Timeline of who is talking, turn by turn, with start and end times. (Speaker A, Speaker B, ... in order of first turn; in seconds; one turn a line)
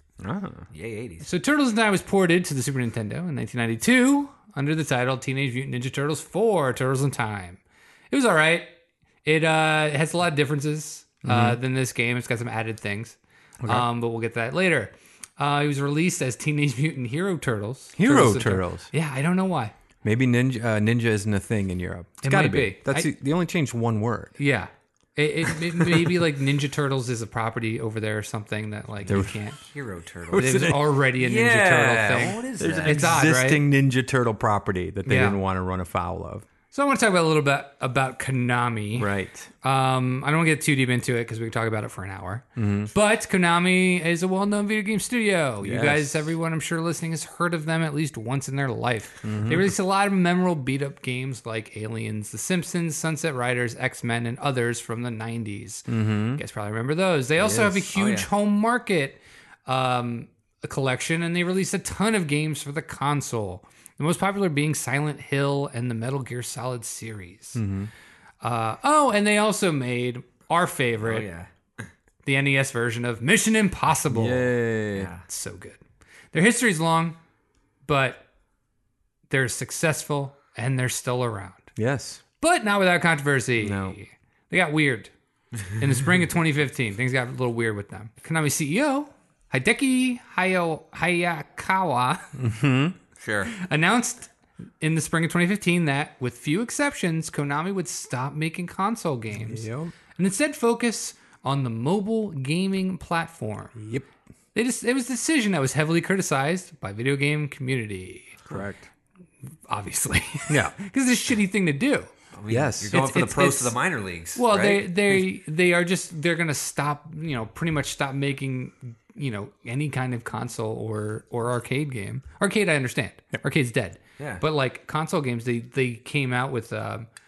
Speaker A: 0.2-0.7
Speaker B: 0.7-1.3
Speaker C: 1.2-7.6
Speaker C: 8.1-8.7
Speaker C: 9.2-19.8
Speaker A: 11.2-11.6
Speaker A: 18.0-18.9
Speaker A: 20.0-24.4
Speaker C: 22.2-23.1
Speaker C: 24.4-29.6
Speaker A: 25.8-26.2
Speaker A: 29.1-29.3
Speaker B: 29.7-33.2
Speaker A: 30.3-30.9
Speaker C: 30.4-33.6
Speaker A: 32.6-36.5
Speaker C: 35.0-35.4
Speaker C: 36.7-39.1
Speaker A: 39.0-39.5
Speaker C: 39.6-67.6
Speaker A: 42.6-42.9
Speaker A: 45.6-46.3
Speaker A: 49.2-49.7
Speaker A: 55.9-56.4
Speaker B: 57.4-58.3
Speaker A: 67.6-67.9
Speaker C: 68.4-71.3
Speaker B: 71.0-71.9
Speaker C: 72.2-74.5
Speaker A: 74.1-75.1
Speaker B: 75.0-75.2
Speaker C: 75.2-75.8
Speaker C: 76.3-77.2
Speaker C: 77.8-78.2
Speaker C: 79.3-81.7
Speaker A: 81.8-82.2
Speaker C: 82.4-85.1
Speaker A: 83.6-84.0
Speaker C: 85.7-92.3
Speaker A: 92.4-93.0
Speaker B: 93.2-93.5
Speaker C: 93.5-103.8
Speaker A: 99.4-99.9
Speaker A: 103.8-104.1
Speaker C: 104.5-108.4
Speaker A: 108.5-108.9
Speaker C: 109.7-112.1
Speaker A: 110.5-110.7
Speaker B: 112.3-114.8
Speaker A: 112.5-113.2
Speaker C: 112.9-113.8
Speaker C: 114.3-127.1